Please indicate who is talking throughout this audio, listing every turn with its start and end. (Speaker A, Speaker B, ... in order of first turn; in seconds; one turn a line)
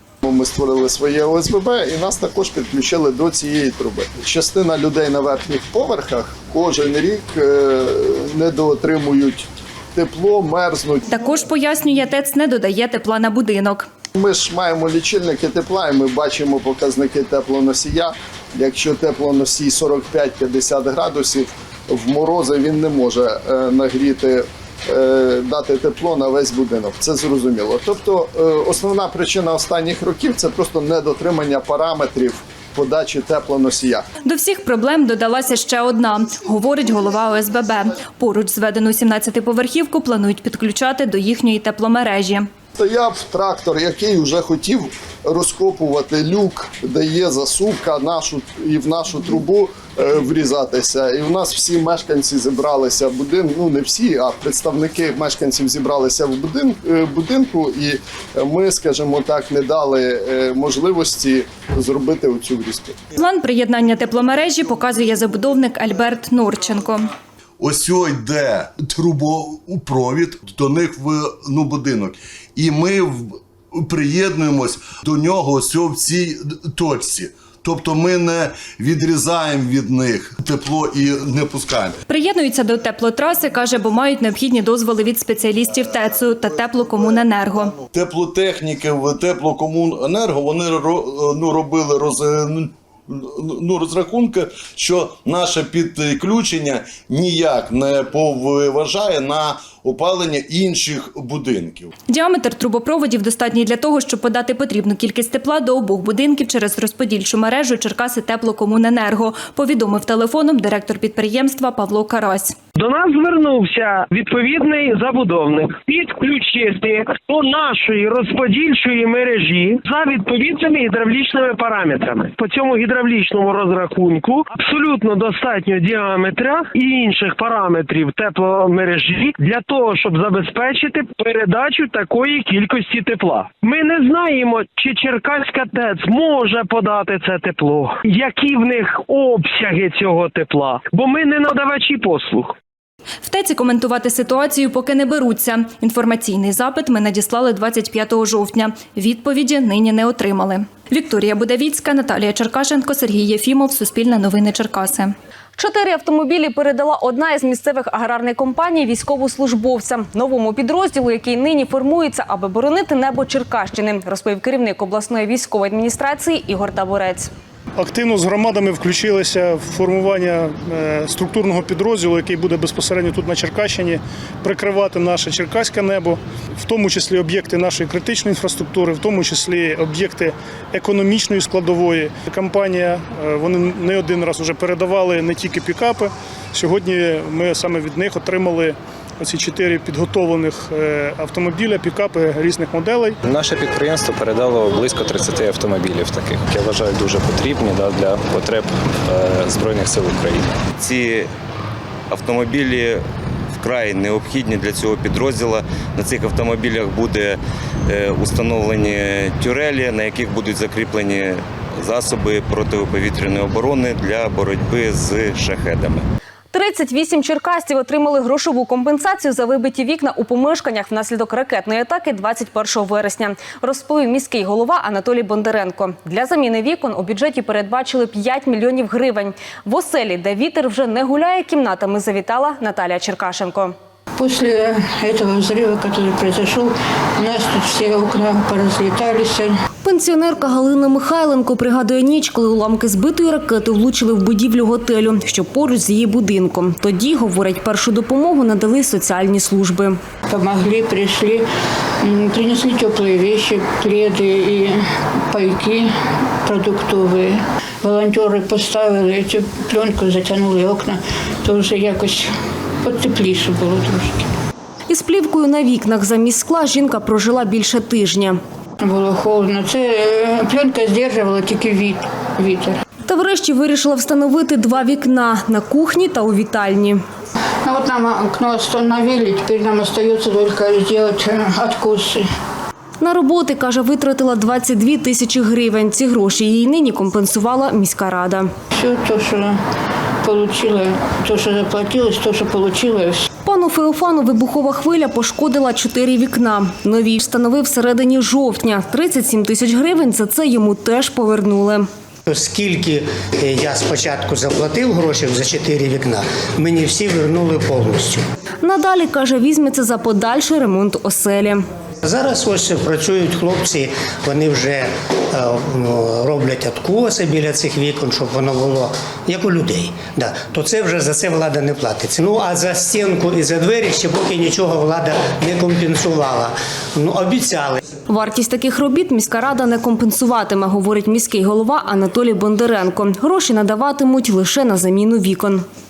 Speaker A: 0.2-11.0
Speaker B: 11.1-13.9
Speaker A: 14.2-34.0
Speaker B: 34.2-42.5
Speaker A: 42.8-63.0
Speaker B: 63.1-67.1
Speaker C: 67.6-82.0
Speaker B: 82.1-87.7
Speaker C: 87.9-101.9
Speaker B: 102.1-112.5
Speaker D: 112.8-142.5
Speaker B: 143.2-155.1
Speaker E: 155.6-167.3
Speaker F: 167.8-193.2
Speaker G: 193.3-200.4
Speaker H: 200.8-201.3
Speaker H: 202.1-203.0
Speaker H: 203.6-216.0
Speaker E: 216.5-233.7
Speaker I: 234.2-239.5
Speaker E: 239.8-250.0
Speaker I: 250.3-251.4
Speaker I: 252.0-254.8
Speaker I: 255.3-264.3
Speaker E: 264.9-268.4
Speaker I: 268.8-272.8
Speaker E: 273.1-277.0
Speaker I: 277.6-282.3
Speaker E: 283.0-288.5
Speaker I: 288.7-289.6
Speaker I: 290.2-293.3
Speaker E: 293.4-301.9
Speaker J: 302.2-308.2
Speaker E: 308.6-311.6
Speaker J: 312.0-327.8
Speaker E: 328.1-335.6